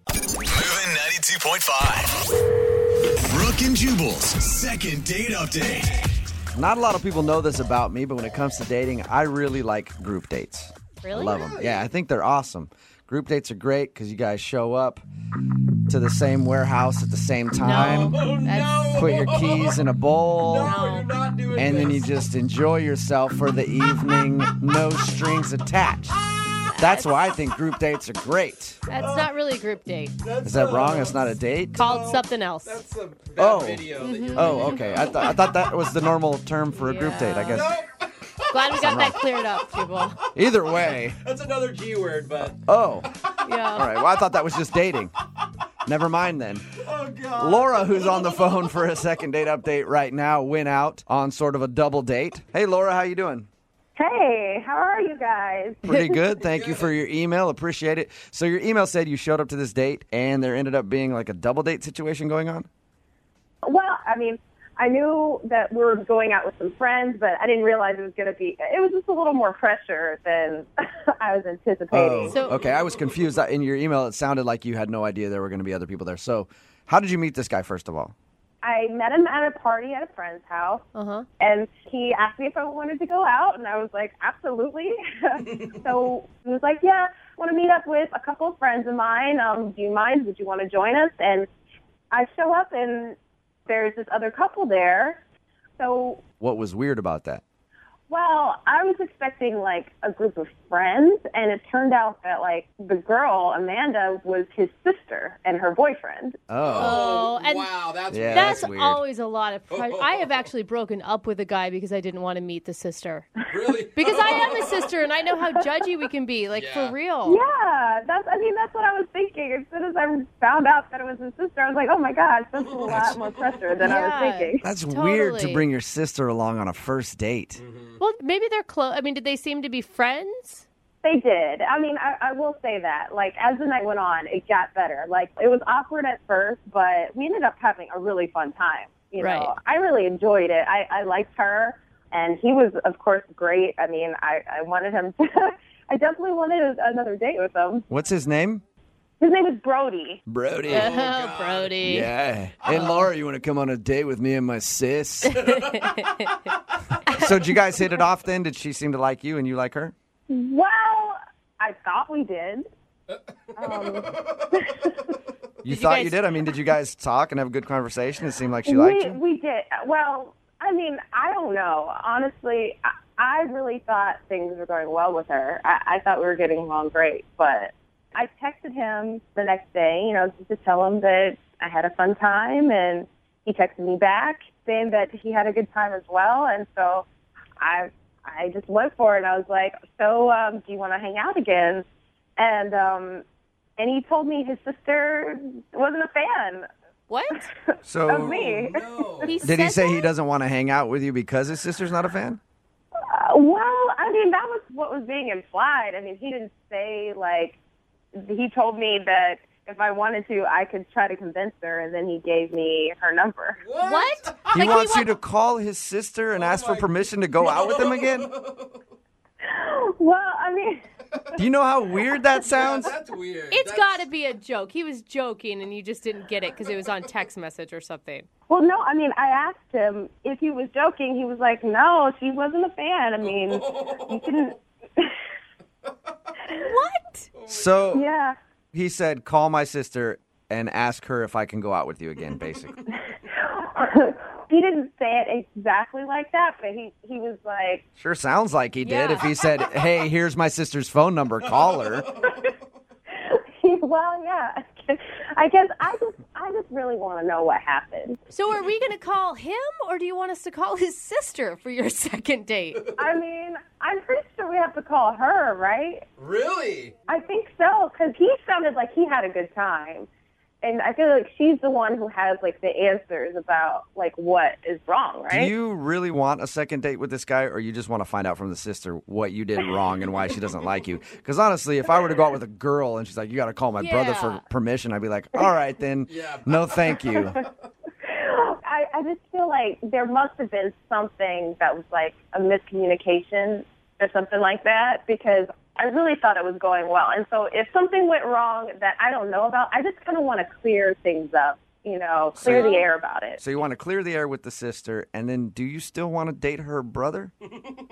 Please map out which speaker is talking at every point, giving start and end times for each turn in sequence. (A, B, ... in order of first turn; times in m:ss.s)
0:00.5-0:02.1 A
0:03.3-0:06.1 A
0:06.5-0:15.0 B
0:11.0-0:11.4 C
0:11.4-0:11.9 D
0:15.9-0:18.2 B
0:17.6-0:19.0 C
0:17.7-0:19.8 D
0:19.0-0:20.8 B
0:20.4-0:22.1 D
0:20.6-0:21.1 C
0:21.6-0:26.2 B
0:26.6-0:27.2 C
0:26.8-0:28.8 B
0:28.9-0:30.2 C
0:28.9-0:29.4 D
0:30.2-0:35.1 D
0:30.4-0:32.0 B
0:31.8-0:32.8 C
0:33.4-0:37.8 B
0:33.9-0:35.4 C
0:36.7-0:37.6 C
0:37.5-0:38.6 D
0:38.5-0:40.2 C
0:38.7-0:39.2 B
0:39.6-0:40.3 D
0:40.3-0:41.2 B
0:41.1-0:42.7 D
0:42.6-0:43.1 B
0:43.4-0:43.9 C
0:43.7-0:45.1 B
0:45.8-0:46.7 B
0:46.7-0:48.5 D
0:47.4-0:53.5 B
0:54.0-0:56.2 E
0:55.8-1:02.7 B
0:56.4-0:56.9 D
1:03.6-1:12.4 E
1:11.9-1:18.1 B
1:18.6-1:20.8 E
1:21.0-1:21.3 C
1:21.4-1:31.5 E
1:32.1-1:35.2 E
1:35.8-1:36.2 E
1:36.4-1:37.4 B
1:38.1-1:46.4 E
1:46.5-1:47.1 B
1:46.6-1:48.8 D
1:46.8-1:47.8 C
1:48.1-1:49.0 B
1:48.3-1:53.4 C
1:49.7-1:50.5 D
1:53.5-1:54.9 D
1:53.9-1:57.4 C
1:56.5-1:57.0 D
1:57.2-2:04.7 E
2:02.6-2:03.1 D
2:02.9-2:03.2 B
2:03.8-2:05.7 C
2:04.6-2:07.6 B
2:07.6-2:08.0 D
2:08.0-2:10.7 C
2:11.0-2:27.9 E
2:19.2-2:19.5 C
2:27.9-2:28.6 B
2:29.2-2:30.2 E
2:30.3-2:31.0 B
2:30.7-2:31.9 D
2:30.7-2:32.1 C
2:31.8-2:35.6 B
2:32.8-2:33.1 C
2:35.4-2:36.3 C
2:37.1-2:37.6 C
2:37.2-2:39.9 B
2:40.3-2:42.7 E
2:43.6-2:44.9 E
2:45.6-2:49.2 B
2:45.7-2:46.2 C
2:48.7-3:07.1 E
3:07.6-3:11.8 E
3:12.4-3:13.2 E
3:13.8-3:16.7 E
3:17.1-3:17.5 C
3:17.4-3:19.5 E
3:17.8-3:18.4 B
3:18.1-3:19.4 D
3:19.2-3:20.1 C
3:19.4-3:22.4 B
3:23.0-3:27.6 E
3:28.2-3:33.6 E
3:33.6-3:34.8 D
3:33.8-3:35.2 C
3:34.5-3:38.3 B
3:36.3-3:38.8 D
3:39.4-3:40.8 E
3:41.4-3:42.9 B
3:42.5-3:44.1 D
3:43.5-3:48.3 C
3:48.5-3:55.2 E
3:53.6-3:54.1 D
3:56.5-3:57.3 C
3:57.4-3:58.0 D
3:57.5-3:58.0 B
3:57.9-3:58.4 E
3:58.7-4:02.8 B
4:03.3-4:07.8 E
4:08.0-4:12.1 B
4:08.8-4:09.3 C
4:13.1-4:18.2 E
4:18.3-4:22.9 C
4:23.0-4:26.0 E
4:26.2-4:26.9 D
4:27.1-4:30.1 E
4:30.6-4:35.5 E
4:35.3-4:47.4 B
4:43.8-4:44.4 C
4:46.1-4:46.9 D
4:48.1-5:03.4 E
5:02.4-5:02.8 B
5:02.5-5:02.9 C
5:03.4-5:07.3 B